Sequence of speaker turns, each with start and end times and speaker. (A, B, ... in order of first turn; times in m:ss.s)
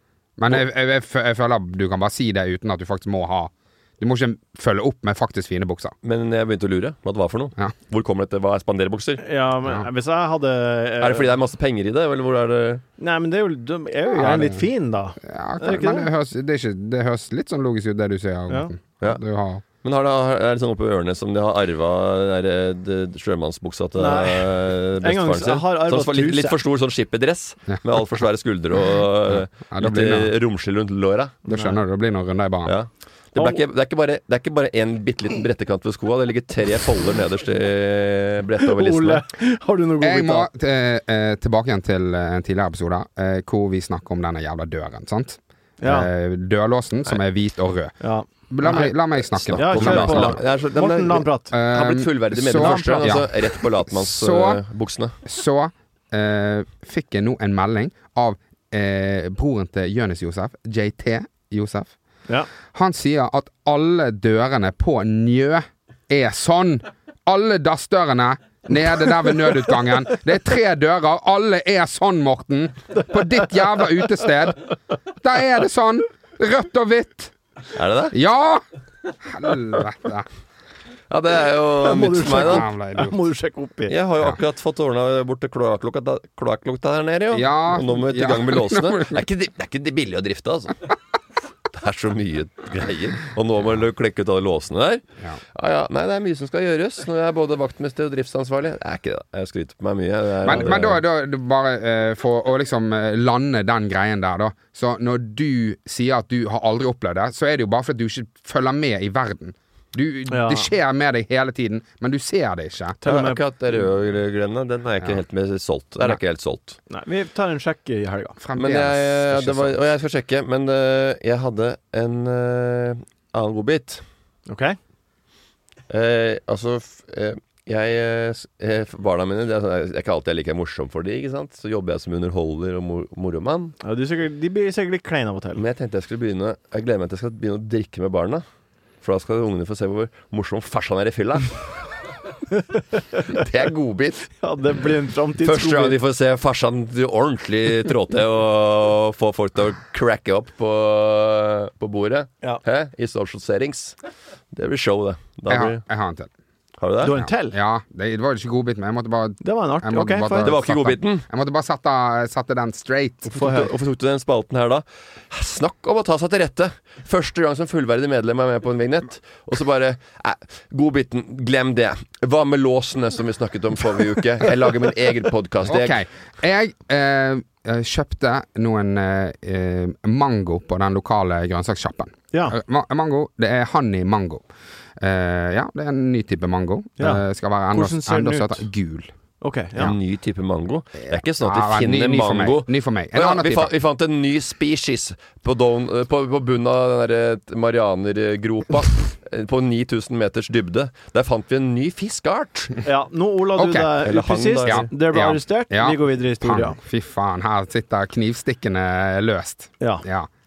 0:00.4-0:05.9 A
0:06.0-0:09.2 B
0:09.2-0:11.3 C
0:11.0-0:12.8 B
0:13.0-0:16.1 C
0:14.2-0:14.7 A
0:15.2-0:19.6 A
0:19.8-0:31.4 B
0:24.0-0:24.5 C
0:25.0-0:26.6 C
0:29.7-0:30.3 A
0:31.5-0:32.8 A
0:31.5-0:31.8 C
0:32.7-0:39.2 B
0:38.7-0:40.5 C
0:40.0-0:48.0 A
0:45.8-0:46.1 C
0:48.0-0:48.9 C
0:48.5-0:50.4 A
0:49.4-0:55.2 B
0:49.5-0:51.5 C
0:51.5-0:54.6 A
0:52.6-0:53.2 C
0:55.2-1:01.9 A
1:02.7-1:17.3 A
1:17.7-1:18.2 B
1:18.1-1:18.6 A
1:19.2-1:20.3 A
1:21.1-1:22.7 B
1:21.8-1:23.9 C
1:22.2-1:23.2 A
1:23.9-1:30.9 B
1:27.3-1:29.2 A
1:31.7-1:35.0 B
1:35.5-1:41.0 B
1:40.4-1:53.0 A
1:50.3-1:50.7 C
1:53.0-1:53.4 C
1:53.0-1:56.8 B
1:56.9-1:58.4 C
1:58.4-1:59.8 A
1:58.6-2:04.0 B
2:04.5-2:04.8 C
2:05.9-2:13.8 B
2:13.8-2:15.6 C
2:15.6-2:18.4 B
2:19.0-2:21.6 B
2:23.3-2:24.3 B
2:24.4-2:26.0 C
2:25.4-2:34.0 B
2:34.5-2:35.8 B
2:35.5-2:36.3 A
2:36.8-2:37.2 B
2:37.0-2:37.6 C
2:37.1-2:43.3 A
2:39.4-2:40.5 C
2:40.4-2:41.2 B
2:43.3-2:56.0 B
2:43.3-2:43.7 C
2:55.7-3:04.4 A
3:02.3-3:02.6 C
3:05.0-3:09.1 A
3:07.0-3:08.7 C
3:09.4-3:09.9 C
3:09.8-3:22.8 B
3:11.1-3:13.7 A
3:22.8-3:26.8 C
3:23.6-3:24.0 A
3:24.0-3:24.9 B
3:24.6-3:30.3 A